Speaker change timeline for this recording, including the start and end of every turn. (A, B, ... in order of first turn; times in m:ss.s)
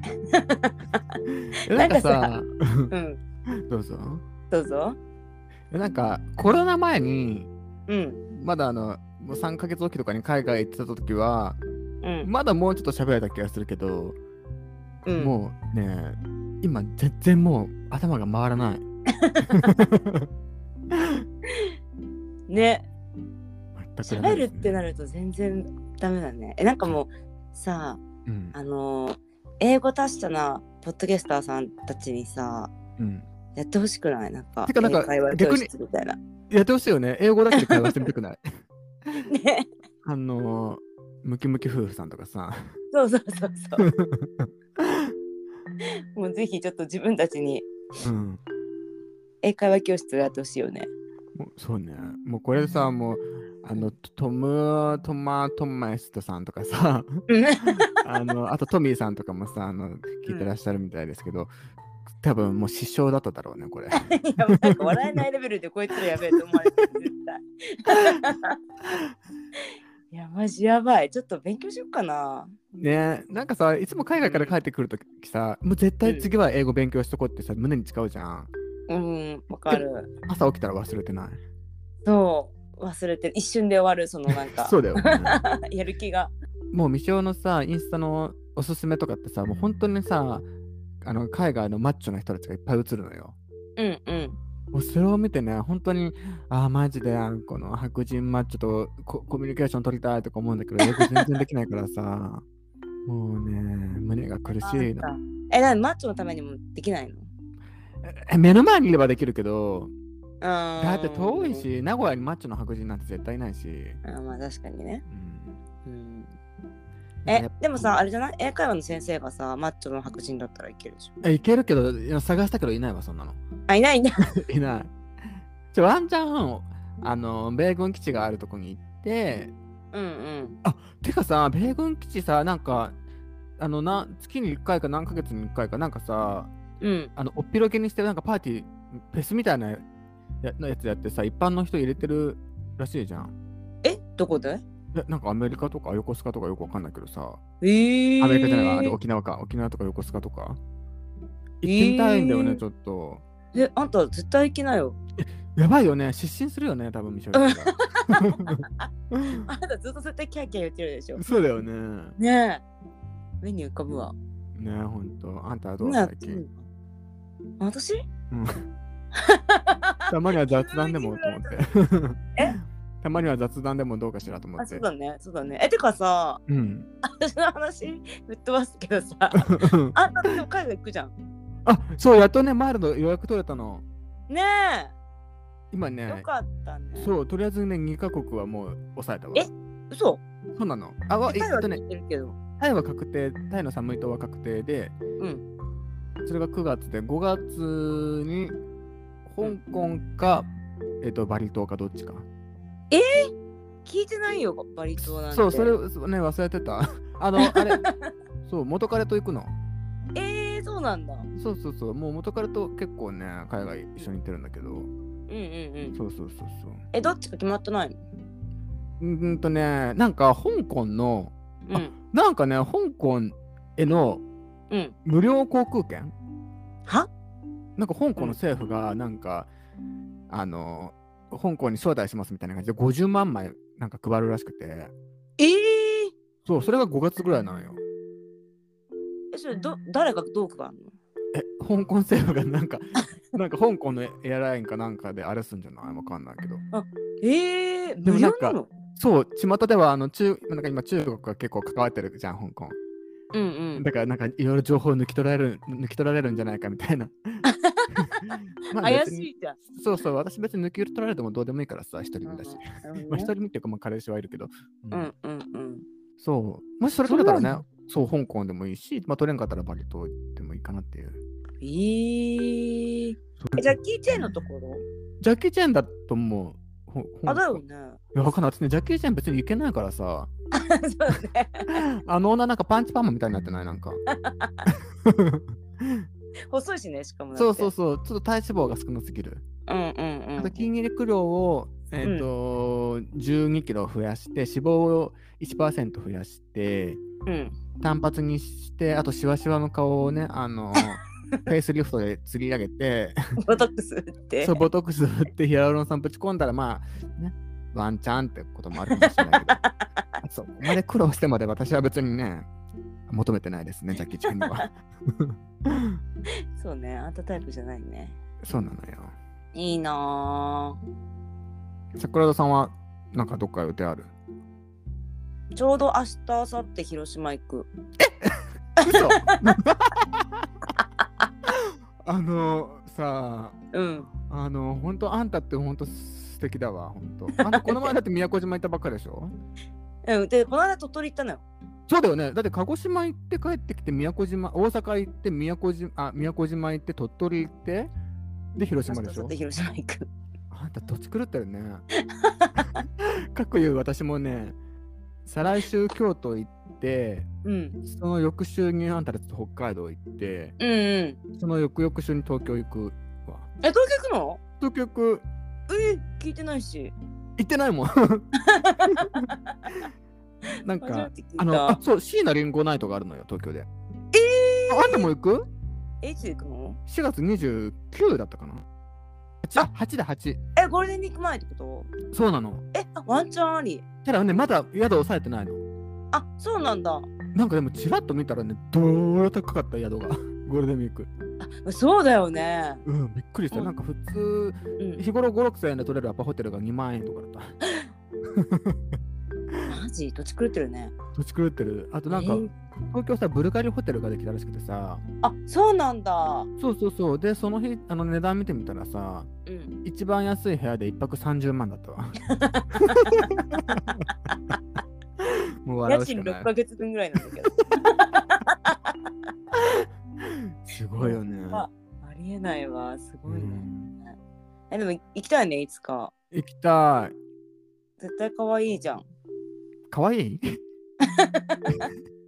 0:00.2-0:00.7 A
0:01.3-0:02.9 B
0:01.7-0:02.3 A
0:02.9-0:03.2 A
0:03.5-0:04.2 B
0:04.5-0:05.0 A
0:05.7-0:07.5 B
0:07.9-0:08.2 A
0:08.3-0:11.6 B
0:12.0-0:12.3 A
0:12.2-0:14.2 B
0:15.0-0:15.3 A
0:15.2-0:18.8 B
0:19.2-0:19.7 A
0:19.5-0:20.3 B
0:22.5-0:22.8 A
0:23.8-0:24.8 B
0:24.0-0:28.0 A
0:28.2-0:28.5 B
0:28.5-0:32.7 A
0:33.0-0:33.2 B
0:33.6-0:36.2 A
0:34.6-0:35.7 B
0:36.5-0:38.4 B
0:37.5-0:38.1 A
0:39.2-0:39.7 A
0:40.0-0:42.7 B
0:42.9-0:43.9 A
0:43.8-0:45.1 B
0:46.1-0:47.7 A
0:48.0-0:48.4 B
0:49.4-0:50.9 A
0:51.3-1:01.5 B
0:57.3-0:57.9 A
1:02.2-1:04.9 B
1:04.0-1:08.6 A
1:10.1-1:12.5 A
1:12.7-1:18.5 B
1:14.2-1:14.6 A
1:18.9-1:20.1 A
1:19.7-1:21.4 B
1:22.0-1:26.3 A
1:24.3-1:25.4 B
1:26.7-1:30.5 B
1:31.0-1:33.4 B
1:33.8-1:34.4 A
1:34.7-1:42.4 B
1:40.8-1:41.2 A
1:43.1-1:45.1 B
1:44.5-1:47.3 A
1:48.0-1:49.9 B
1:50.4-1:51.6 A
1:50.8-1:54.0 B
1:54.0-1:55.0 A
1:55.1-1:55.6 B
1:55.8-1:56.3 A
1:57.2-1:58.0 B
1:57.3-2:01.1 A
2:01.2-2:03.4 B
2:03.7-2:04.3 A
2:04.4-2:04.9 B
2:05.7-2:09.5 B
2:09.9-2:10.6 A
2:10.6-2:12.9 B
2:13.6-2:16.5 B
2:16.8-2:17.1 A
2:17.2-2:19.8 B
2:20.4-2:23.3 B
2:23.8-2:24.6 A
2:24.9-2:27.4 B
2:27.6-2:29.0 A
2:28.2-2:30.6 B
2:31.6-2:33.2 B
2:31.6-2:32.6 A
2:33.5-2:35.0 A
2:35.2-2:39.5 B
2:37.3-2:38.8 A
2:39.5-2:41.2 A
2:41.2-2:42.2 B
2:42.2-2:42.6 A
2:43.4-2:44.1 A
2:44.6-2:46.4 B
2:45.8-2:46.5 A
2:47.6-2:48.0 A
2:48.3-2:48.7 B
2:49.2-2:51.6 A
2:50.1-2:54.8 B
2:54.6-2:56.4 A
2:56.5-2:56.9 B
2:57.0-3:01.1 A
2:59.4-2:59.9 B
3:01.6-3:03.8 B
3:04.3-3:04.9 A
3:05.7-3:06.3 B
3:06.1-3:07.1 A
3:07.0-3:09.5 B
3:09.3-3:10.2 A
3:10.6-3:11.8 B
3:11.3-3:12.4 A
3:12.6-3:14.9 B
3:15.2-3:15.4 A
3:16.2-3:18.6 B
3:19.2-3:20.5 B
3:21.0-3:22.2 B
3:22.9-3:23.3 A
3:23.8-3:25.8 A
3:25.0-3:27.8 B
3:27.4-3:28.0 A
3:28.4-3:29.5 B
3:30.1-3:31.3 A
3:31.3-3:34.9 B
3:35.3-3:36.0 A
3:35.9-3:36.8 B
3:36.9-3:38.0 A
3:39.0-3:44.2 B
3:41.6-3:41.9 A
3:44.7-3:44.9 A
3:45.0-3:46.1 B
3:47.8-3:49.5 B
3:50.3-3:54.9 B
3:55.4-3:56.1 A
3:56.4-3:57.8 B
3:59.3-4:00.9 A
4:01.3-4:06.6 B
4:06.7-4:08.7 A
4:08.0-4:12.8 B
4:13.3-4:13.8 A
4:13.8-4:25.1 B
4:17.4-4:18.2 A
4:18.8-4:19.6 A
4:22.2-4:23.3 A
4:24.9-4:25.8 A
4:26.2-4:31.2 B
4:27.0-4:27.5 A
4:31.6-4:34.8 A
4:33.4-4:34.3 B
4:35.2-4:37.6 B
4:37.3-4:38.0 A
4:38.1-4:40.3 B
4:40.5-4:41.8 A
4:41.7-4:44.0 B
4:44.1-4:44.6 A
4:44.6-4:46.0 B
4:46.5-4:47.7 A
4:47.4-4:49.4 B
4:49.7-4:50.6 A
4:50.4-4:57.0 B
4:52.0-4:52.3 A
4:57.2-4:57.6 A
4:57.8-5:03.2 B
5:03.4-5:04.6 A
5:04.4-5:09.6 B
5:10.2-5:12.5 B
5:13.1-5:16.0 B
5:14.2-5:14.6 A
5:16.6-5:18.2 A
5:18.4-5:19.1 B
5:19.5-5:20.8 A
5:22.0-5:24.1 B
5:25.6-5:27.7 A
5:28.0-5:30.2 B
5:28.8-5:29.4 A
5:32.0-5:33.6 B
5:33.7-5:34.1 A
5:34.2-5:39.3 B
5:37.4-5:37.9 A
5:40.0-5:41.4 A
5:41.9-5:47.9 B
5:48.6-5:49.3 B
5:48.9-5:50.1 A
5:50.5-5:51.8 B
5:52.0-5:52.7 A
5:53.0-5:54.6 B
5:55.2-5:57.3 B
5:57.4-5:57.8 A
5:57.8-6:00.6 B
6:00.6-6:01.2 A
6:01.3-6:03.5 B
6:03.6-6:04.4 A
6:04.6-6:05.2 B
6:05.7-6:06.9 A
6:07.4-6:08.3 B
6:08.4-6:09.4 A
6:08.9-6:09.2 B
6:10.6-6:13.7 B
6:10.8-6:11.8 A
6:14.1-6:15.1 A
6:14.7-6:15.5 B
6:16.0-6:16.8 A
6:16.9-6:18.6 B
6:19.4-6:20.4 B
6:20.6-6:21.9 A
6:22.1-6:22.6 B
6:22.7-6:23.8 A
6:24.0-6:25.6 B
6:26.1-6:27.1 A
6:27.3-6:31.1 B
6:31.4-6:32.8 A
6:32.8-6:37.5 B
6:38.3-6:38.8 B
6:39.7-6:40.9 A
6:41.1-6:45.0 B
6:42.1-6:42.5 A
6:45.2-6:46.5 A
6:46.6-6:49.3 B
6:49.4-6:49.7 A
6:49.8-6:52.2 B
6:52.3-6:53.2 A
6:52.7-6:54.0 B
6:55.2-6:56.5 B
6:55.9-6:58.9 A
7:00.2-7:01.7 B
7:01.0-7:04.1 A
7:03.3-7:03.9 B
7:04.7-7:06.1 A
7:06.3-7:07.1 B
7:08.0-7:09.0 A
7:09.9-7:10.6 B
7:11.0-7:11.9 A